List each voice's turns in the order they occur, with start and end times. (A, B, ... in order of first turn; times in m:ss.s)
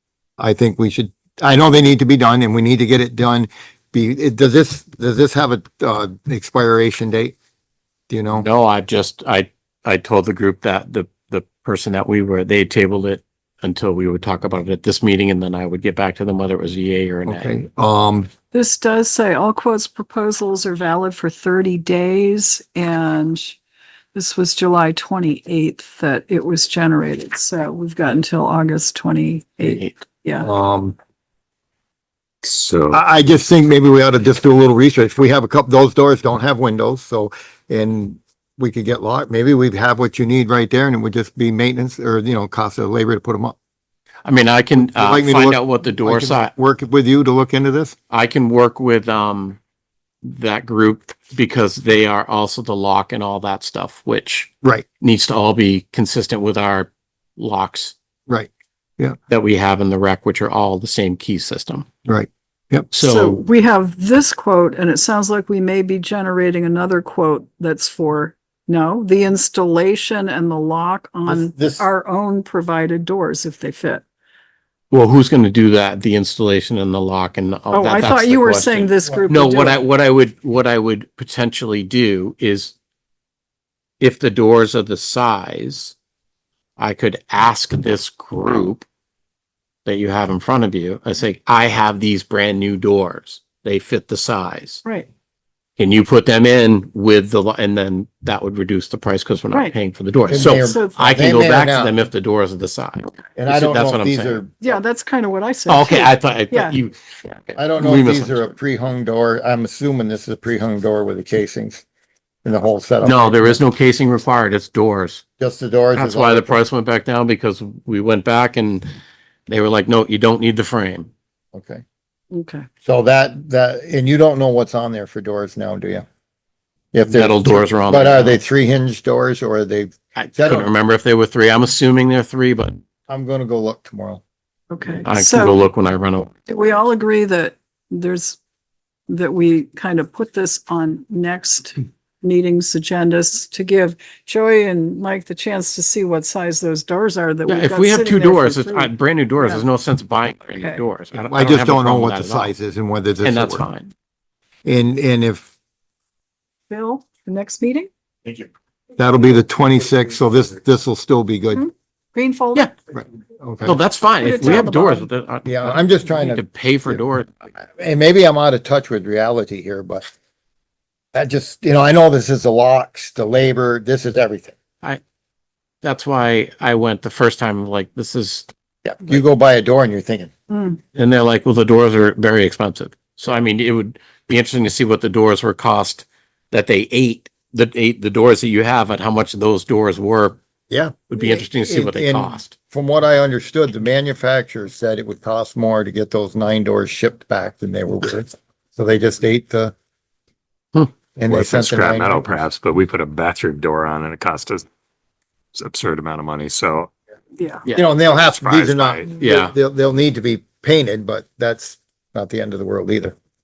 0:00.4-0:07.4 A
0:08.1-0:08.5 A
0:08.3-0:17.5 B
0:17.2-0:18.3 A
0:18.5-0:23.6 C
0:24.1-0:30.5 C
0:29.6-0:29.9 B
0:30.4-0:31.0 A
0:32.4-0:33.0 D
0:32.9-0:43.6 A
0:44.2-0:46.5 B
0:44.8-0:48.0 A
0:48.1-0:49.6 B
0:50.2-0:57.9 B
0:58.3-0:59.2 A
0:59.3-1:01.9 B
1:02.0-1:02.9 A
1:02.9-1:03.4 B
1:02.9-1:14.0 C
1:11.2-1:11.8 A
1:14.9-1:22.7 B
1:17.7-1:19.8 C
1:24.0-1:25.9 B
1:26.8-1:28.8 B
1:29.8-1:34.8 B
1:35.8-1:44.4 B
1:40.3-1:41.9 A
1:40.3-1:41.0 C
1:43.3-1:44.6 A
1:44.6-1:46.8 C
1:45.6-1:48.6 B
1:47.6-1:51.8 A
1:52.4-1:53.6 A
1:53.0-1:55.2 B
1:55.4-1:56.6 A
1:55.9-1:58.9 B
1:59.5-2:01.1 B
2:01.5-2:01.8 A
2:02.3-2:02.7 C
2:02.8-2:06.0 A
2:06.9-2:10.7 A
2:07.1-2:08.4 B
2:10.2-2:12.8 B
2:13.1-2:14.2 A
2:14.7-2:15.6 C
2:15.0-2:16.3 B
2:16.5-2:18.4 C
2:19.1-2:29.6 C
2:27.5-2:32.5 B
2:31.1-2:33.6 A
2:33.2-2:33.9 B
2:34.6-2:35.5 A
2:36.7-2:37.9 C
2:39.0-2:41.6 A
2:41.5-2:42.7 C
2:42.9-2:43.8 A
2:43.6-2:47.3 B
2:44.2-2:45.1 C
2:45.4-2:47.0 A
2:47.8-2:50.0 A
2:51.1-2:54.6 A
2:55.8-2:58.5 B
2:58.8-3:00.3 A
3:00.5-3:00.8 C
3:00.9-3:10.4 B
3:10.7-3:19.7 A
3:11.1-3:12.5 B
3:21.2-3:22.3 A
3:21.3-3:24.7 D
3:25.5-3:26.9 D
3:27.7-3:33.2 A
3:28.2-3:29.1 D
3:29.2-3:29.5 B